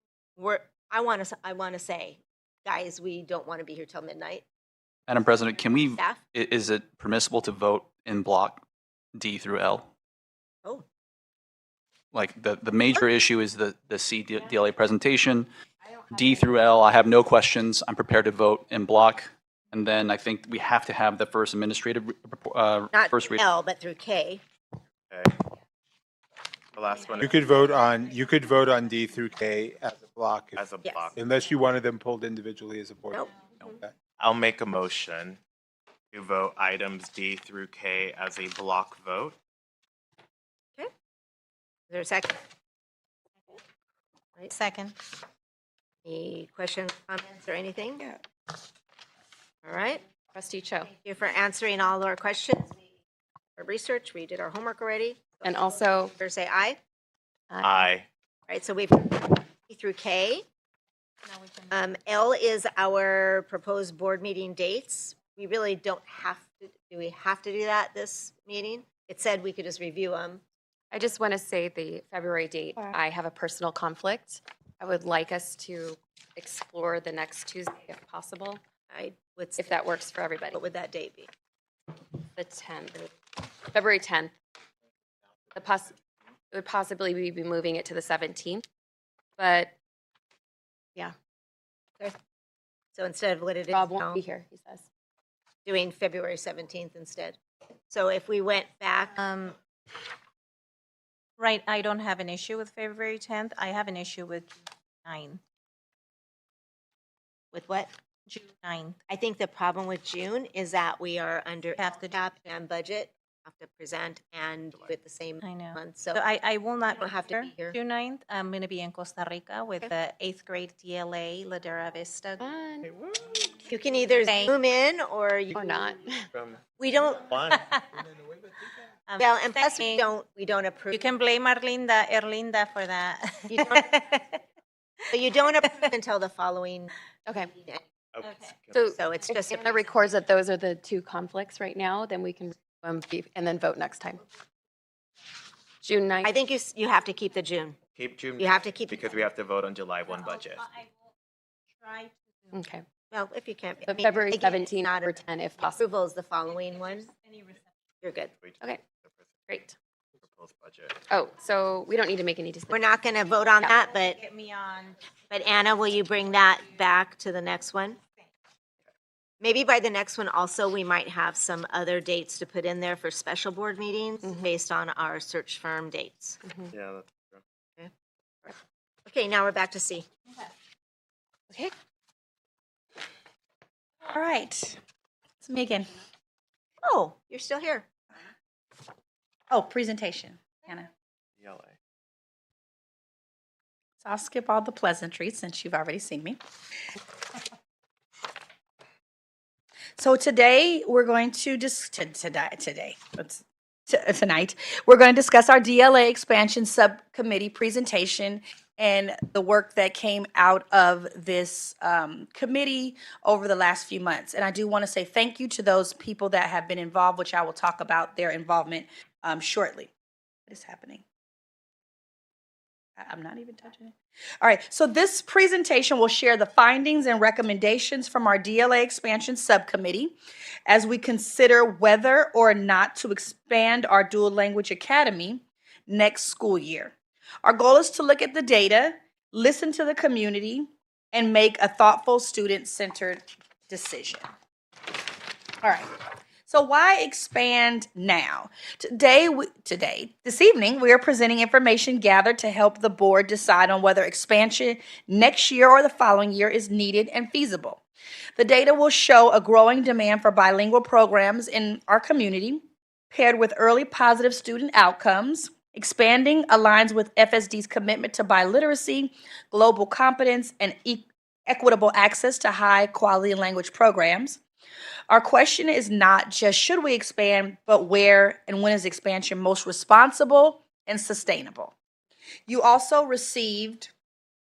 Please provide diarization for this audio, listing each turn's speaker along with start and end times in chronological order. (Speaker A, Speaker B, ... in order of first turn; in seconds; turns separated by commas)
Speaker A: 0.4-4.4, Speaker B: 5.1-8.6, Speaker B: 9.1-9.9, Speaker B: 12.1-15.5, Speaker B: 16.1-23.4, Speaker A: 22.9-24.4, Speaker C: 25.1-25.4, Speaker C: 26.7-27.8, Speaker D: 27.2-30.6, Speaker C: 30.6-31.2, Speaker A: 30.8-31.1, Speaker D: 31.1-33.9, Speaker C: 34.2-35.4, Speaker C: 36.1-39.4, Speaker A: 41.9-42.4, Speaker E: 44.5-45.0, Speaker A: 46.0-48.1, Speaker A: 49.6-50.0, Speaker F: 50.3-50.9, Speaker A: 51.0-52.8, Speaker A: 53.6-56.8, Speaker F: 55.4-56.1, Speaker F: 57.5-57.9, Speaker C: 57.6-58.0, Speaker A: 58.5-60.5, Speaker E: 61.2-61.7, Speaker A: 61.7-70.4, Speaker F: 70.9-78.6, Speaker A: 78.9-79.7, Speaker F: 79.6-80.6, Speaker A: 80.5-81.3, Speaker F: 82.3-83.1, Speaker F: 83.7-84.3, Speaker F: 85.5-86.0, Speaker F: 86.5-88.6, Speaker F: 89.4-89.7, Speaker A: 92.9-94.2, Speaker F: 93.7-94.8, Speaker A: 95.6-97.4, Speaker A: 97.9-99.2, Speaker E: 99.2-99.5, Speaker E: 101.4-105.4, Speaker A: 107.5-107.9, Speaker E: 108.3-109.0, Speaker A: 109.1-116.2, Speaker E: 111.8-112.3, Speaker E: 115.4-122.5, Speaker A: 117.0-117.8, Speaker F: 122.4-122.9, Speaker C: 122.8-123.3, Speaker A: 123.7-125.6, Speaker E: 124.2-124.5, Speaker F: 125.5-126.2, Speaker C: 126.3-126.6, Speaker A: 126.8-127.3, Speaker C: 127.2-127.6, Speaker E: 127.6-127.8, Speaker E: 129.1-130.1, Speaker A: 129.2-131.0, Speaker E: 130.9-133.9, Speaker A: 133.5-134.3, Speaker A: 135.1-136.9, Speaker F: 137.2-137.5, Speaker C: 138.1-138.9, Speaker E: 138.2-138.6, Speaker F: 138.7-144.2, Speaker A: 138.9-139.9, Speaker F: 145.8-146.3, Speaker A: 146.2-147.8, Speaker C: 147.9-150.6, Speaker A: 148.4-149.2, Speaker E: 150.1-151.0, Speaker E: 151.8-152.7, Speaker F: 152.5-152.8, Speaker A: 153.1-157.1, Speaker F: 153.8-155.8, Speaker E: 156.5-157.7, Speaker A: 158.0-158.3, Speaker C: 158.4-159.4, Speaker F: 159.5-159.8, Speaker C: 160.2-160.9, Speaker F: 161.1-163.0, Speaker A: 162.7-164.2, Speaker E: 164.0-165.0, Speaker A: 165.3-168.0, Speaker A: 169.4-176.4, Speaker F: 176.4-176.7, Speaker C: 176.7-177.4, Speaker A: 179.1-180.1, Speaker G: 184.0-184.8, Speaker G: 185.4-185.9, Speaker A: 186.8-187.8, Speaker G: 189.5-190.9, Speaker C: 191.4-191.8, Speaker G: 194.0-196.4, Speaker G: 200.0-219.9, Speaker G: 220.5-221.0, Speaker G: 223.0-244.3, Speaker G: 245.6-245.9, Speaker G: 246.5-257.8, Speaker G: 258.4-274.4, Speaker G: 275.1-281.8, Speaker G: 282.5-283.9